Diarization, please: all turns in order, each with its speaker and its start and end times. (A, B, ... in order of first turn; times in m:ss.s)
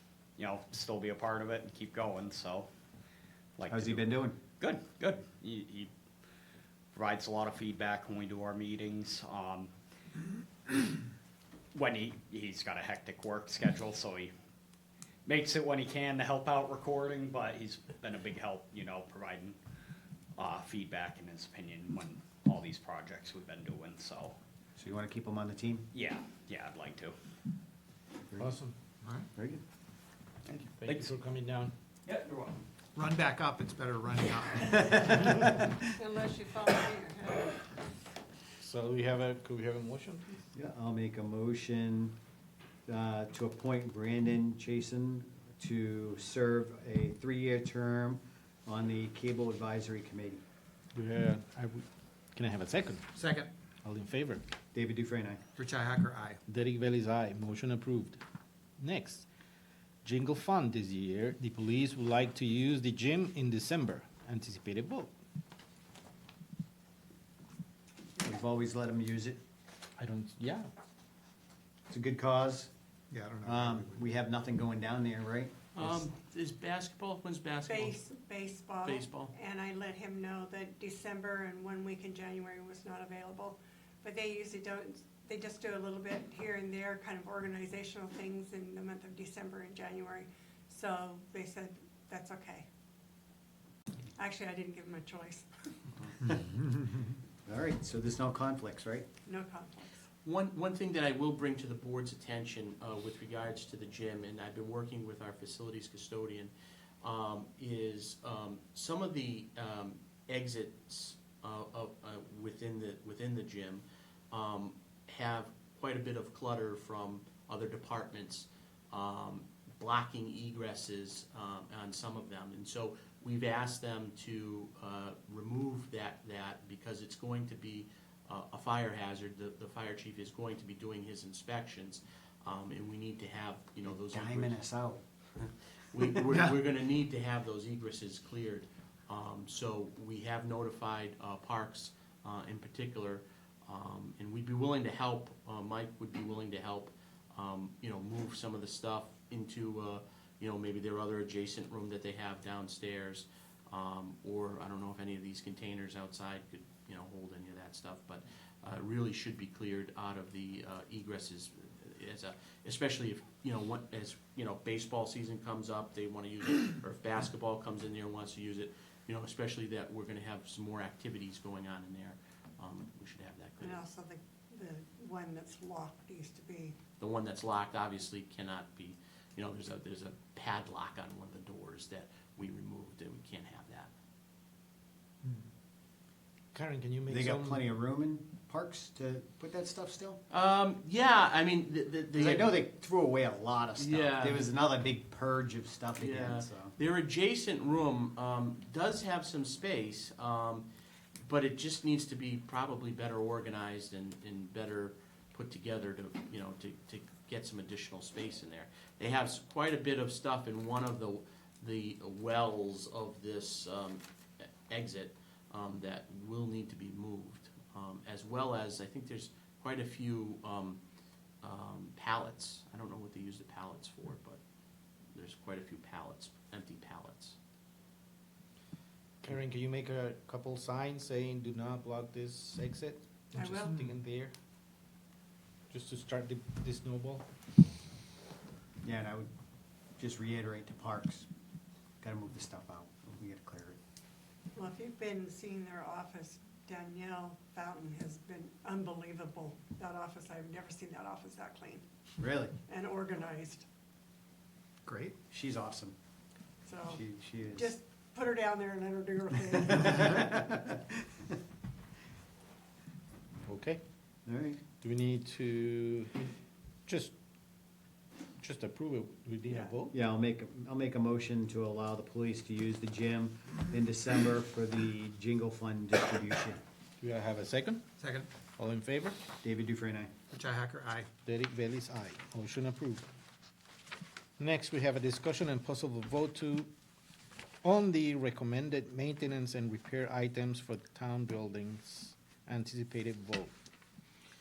0:00.4-0:02.7 A
0:03.6-0:05.9 A
0:03.7-0:04.4 B
0:06.9-0:09.7 A
0:11.7-0:14.3 A
0:15.3-0:19.6 A
0:20.4-0:24.4 A
0:24.8-0:25.9 B
0:25.9-0:27.2 A
0:28.4-0:28.7 C
0:29.4-0:29.6 B
0:30.5-0:31.1 A
0:30.8-0:31.7 C
0:32.1-0:32.6 A
0:33.0-0:35.2 D
0:35.9-0:37.7 E
0:38.6-0:40.4 C
0:40.5-0:42.1 B
0:42.9-0:50.4 B
0:50.9-0:53.0 C
0:53.1-0:53.5 D
0:53.8-0:54.4 C
0:54.7-0:55.4 B
0:55.6-0:56.4 D
0:56.5-0:58.2 C
0:58.8-0:59.3 C
1:00.0-1:05.1 C
1:08.2-1:09.4 B
1:10.0-1:10.7 C
1:11.9-1:12.7 B
1:13.1-1:14.0 D
1:13.4-1:15.6 B
1:15.8-1:18.0 F
1:17.7-1:32.7 E
1:18.8-1:19.3 F
1:34.2-1:35.8 E
1:37.4-1:39.1 B
1:39.3-1:40.0 E
1:40.2-2:14.6 F
2:13.9-2:15.0 B
2:15.4-2:53.8 F
2:53.6-2:56.8 E
2:57.0-3:03.9 F
3:06.5-3:07.6 C
3:07.1-3:10.2 B
3:10.3-3:12.6 F
3:12.2-3:16.7 B
3:13.8-3:14.5 F
3:16.0-3:20.7 F
3:21.2-3:40.8 F
3:41.4-3:44.4 F
3:45.1-3:47.4 F
3:49.2-3:54.3 C
3:53.3-3:53.8 E
3:55.7-3:57.2 C
3:58.8-3:59.3 B
4:00.0-4:01.3 B
4:02.0-4:03.8 B
4:04.6-4:11.8 E
4:12.2-4:12.5 B
4:12.7-4:13.6 E
4:14.9-4:15.2 D
4:15.3-4:16.0 B
4:16.6-4:20.2 E
4:16.9-4:17.7 B
4:19.8-4:20.8 B
4:23.5-4:23.8 C
4:24.3-4:24.6 B
4:24.8-4:26.3 C
4:26.9-4:27.1 C
4:28.4-4:29.9 C
4:29.9-4:36.6 B
4:37.0-4:37.8 C
4:38.0-4:38.3 D
4:38.6-4:39.2 C
4:39.4-4:40.1 B
4:40.3-4:41.1 D
4:41.2-4:43.0 C
4:44.4-4:46.7 C
4:47.6-4:53.5 C